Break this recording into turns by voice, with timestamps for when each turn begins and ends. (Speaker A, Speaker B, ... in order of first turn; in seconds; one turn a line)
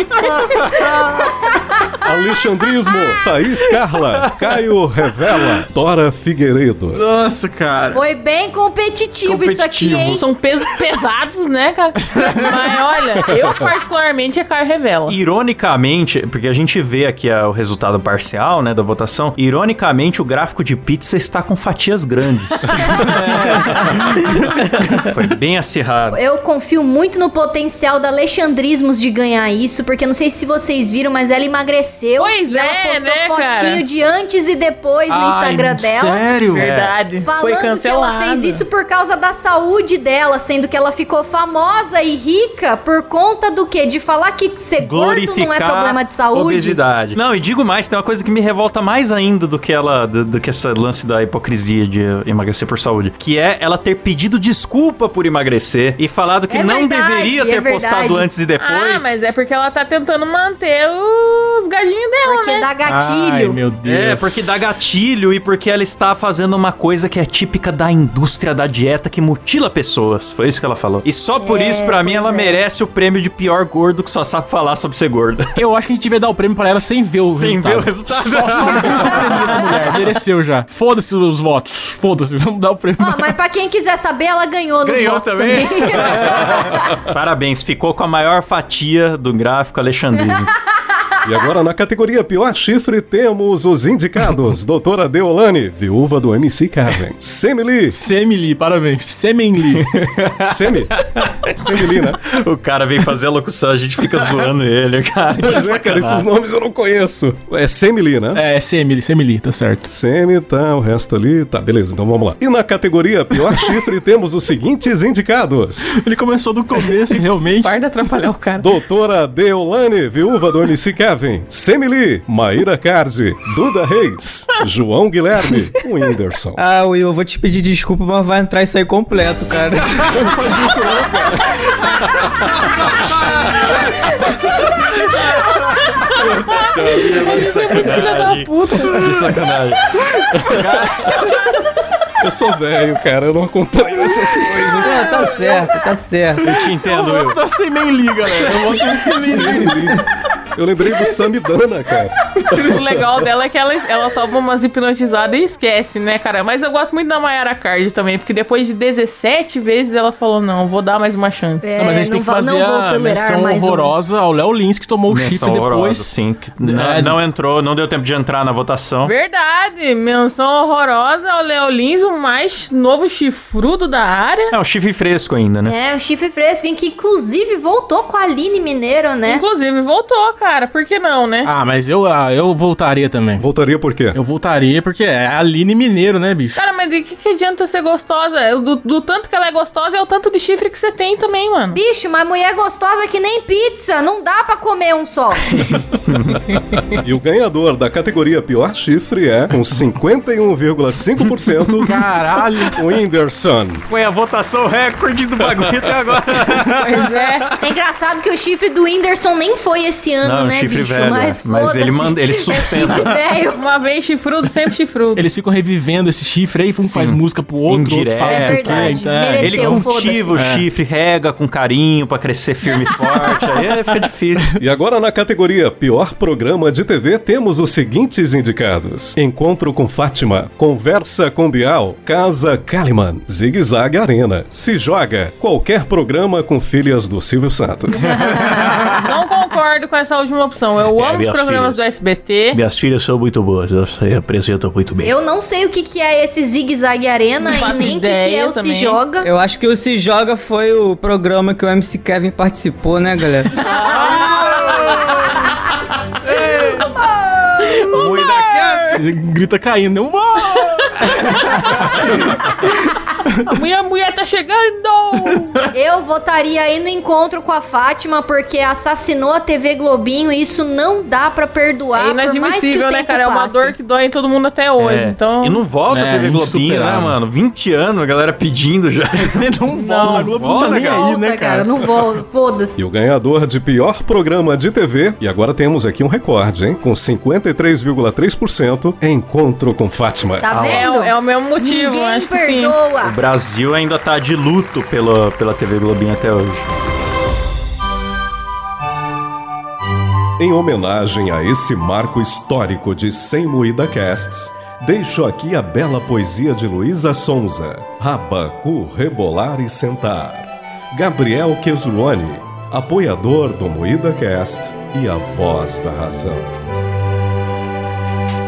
Speaker A: 0.7-2.1
Speaker B: 2.0-7.0
Speaker C: 6.9-8.0
Speaker A: 7.9-10.2
Speaker D: 9.2-10.2
Speaker E: 10.1-15.2
Speaker C: 12.2-12.5
Speaker D: 15.1-26.2
Speaker C: 23.1-23.6
Speaker A: 26.1-36.3
Speaker E: 32.2-33.8
Speaker C: 35.1-36.7
Speaker E: 36.5-38.6
Speaker D: 36.6-36.9
Speaker A: 37.2-46.8
Speaker D: 44.8-59.2
Speaker A: 56.5-58.3
Speaker E: 58.6-62.7
Speaker A: 62.2-63.6
Speaker C: 62.9-64.7
Speaker D: 63.9-75.5
Speaker A: 71.4-72.6
Speaker C: 75.6-83.4
Speaker D: 77.3-80.0
Speaker A: 83.0-86.8
Speaker D: 84.8-90.5
Speaker B: 91.2-98.0
Speaker C: 97.9-99.9
Speaker D: 99.8-106.3
Speaker B: 100.5-102.2
Speaker B: 105.4-108.4
Speaker C: 108.3-109.9
Speaker B: 109.9-116.0
Speaker C: 116.0-117.7
Speaker E: 117.6-118.7
Speaker B: 118.6-126.6
Speaker F: 126.6-130.1
Speaker B: 130.2-131.4
Speaker D: 133.3-133.8
Speaker D: 135.1-135.9
Speaker B: 136.5-137.7
Speaker D: 136.6-139.9
Speaker E: 137.1-139.0
Speaker C: 140.3-141.4
Speaker B: 140.4-141.1
Speaker B: 142.2-145.2
Speaker C: 144.5-145.7
Speaker F: 144.8-146.4
Speaker D: 146.4-147.4
Speaker C: 146.4-149.9
Speaker B: 149.2-150.0
Speaker B: 150.6-153.1
Speaker E: 152.5-161.7
Speaker A: 161.6-163.9
Speaker C: 161.8-167.2
Speaker D: 165.1-169.1
Speaker E: 169.0-174.5
Speaker D: 174.5-175.8
Speaker A: 175.7-179.4
Speaker E: 179.3-181.5
Speaker C: 181.4-183.4
Speaker B: 183.4-184.2
Speaker C: 184.1-186.7
Speaker E: 186.6-191.8
Speaker A: 191.7-195.8
Speaker D: 196.1-196.5
Speaker B: 197.0-202.0
Speaker C: 201.8-202.8
Speaker B: 202.7-203.8
Speaker D: 203.8-207.1
Speaker E: 206.8-207.5
Speaker A: 207.6-213.6
Speaker D: 210.2-213.2
Speaker E: 213.5-215.2
Speaker C: 215.2-220.7
Speaker D: 216.8-224.6
Speaker A: 218.2-220.3
Speaker B: 224.6-238.4
Speaker D: 238.0-239.1
Speaker A: 238.2-238.9
Speaker E: 238.9-242.6
Speaker D: 241.0-241.8
Speaker D: 242.5-245.1
Speaker A: 245.0-249.3
Speaker E: 247.4-249.0
Speaker F: 249.2-253.6
Speaker D: 253.6-255.2
Speaker A: 253.7-254.2
Speaker D: 256.2-256.9
Speaker E: 257.6-258.8
Speaker D: 257.9-259.0
Speaker C: 258.9-263.4
Speaker E: 261.1-262.0
Speaker E: 263.4-265.7
Speaker C: 265.2-265.6
Speaker A: 265.7-273.8
Speaker E: 271.9-275.6
Speaker D: 274.8-281.0
Speaker C: 275.9-277.2
Speaker C: 279.1-281.7
Speaker E: 279.8-280.4
Speaker A: 280.6-282.8
Speaker B: 282.8-290.7
Speaker A: 290.4-293.1
Speaker D: 290.5-290.9
Speaker E: 290.7-292.8
Speaker D: 293.0-296.7
Speaker B: 300.4-316.5